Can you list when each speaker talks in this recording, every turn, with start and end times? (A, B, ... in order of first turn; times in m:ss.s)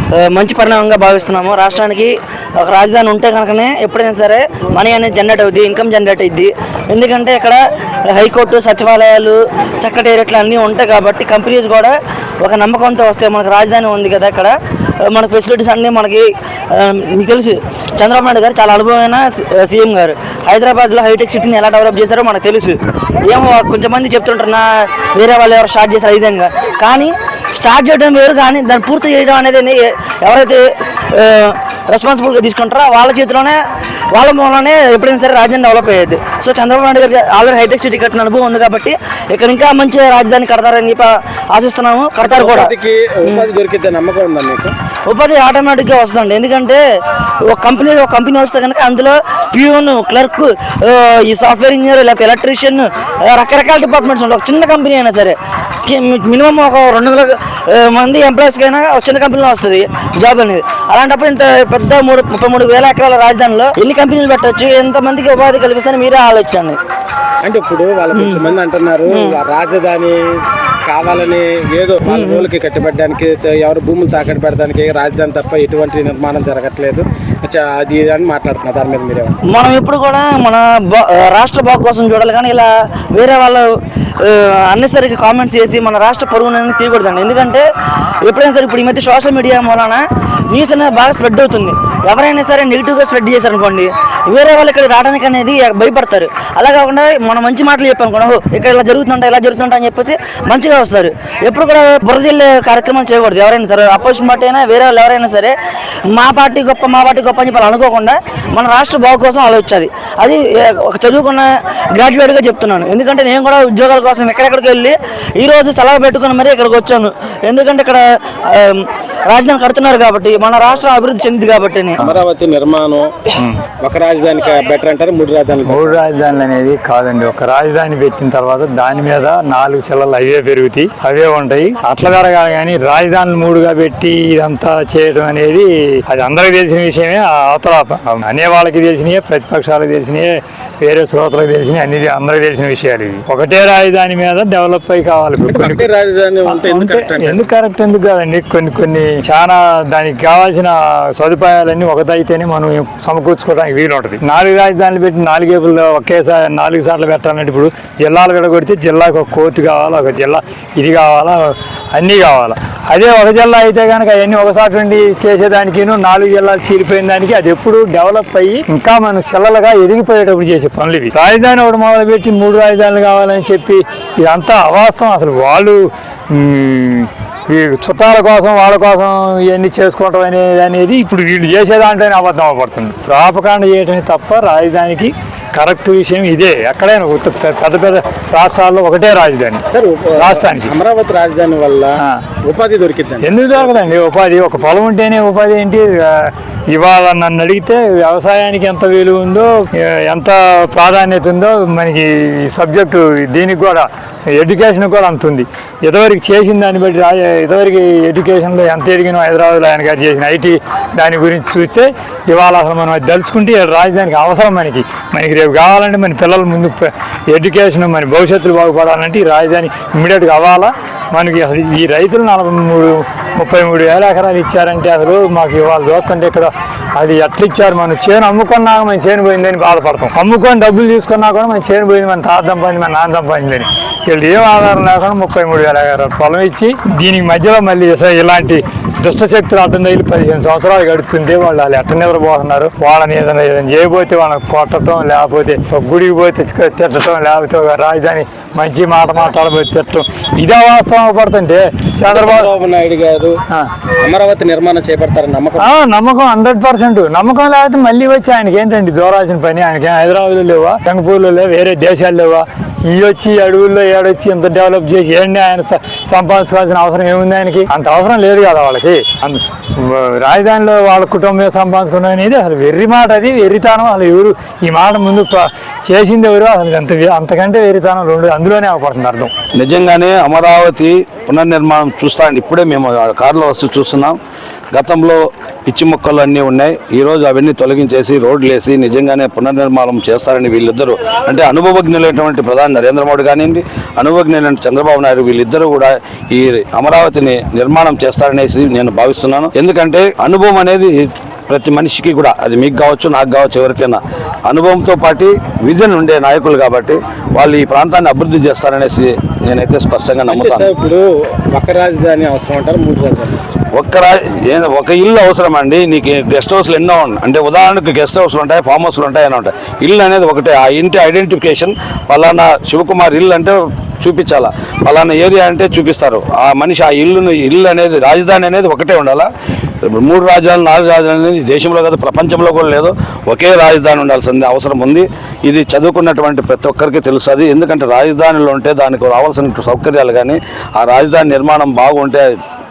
0:00.2-0:14.5 A
0:15.1-0:33.6 A
0:34.1-0:42.7 A
0:42.2-0:44.7 B
0:45.1-0:46.8 A
0:47.5-1:06.8 A
1:07.4-1:10.2 B
1:08.1-1:08.4 A
1:09.1-1:09.4 A
1:10.8-1:19.4 B
1:12.1-1:12.5 A
1:19.5-1:23.7 A
1:24.2-1:27.6 A
1:28.2-1:45.5 A
1:46.1-2:02.0 A
2:02.0-2:03.2 B
2:03.8-2:06.0 B
2:05.7-2:25.9 C
2:25.5-2:27.5 B
2:26.4-2:55.8 C
2:56.3-3:10.8 C
3:09.7-3:13.8 B
3:13.2-4:12.5 C
4:12.1-4:13.3 B
4:14.0-4:15.7 B
4:15.6-4:39.3 C
4:39.6-4:44.2 D
4:44.7-5:10.7 D
5:10.3-5:13.4 B
5:13.7-5:29.3 D
5:29.8-5:42.3 D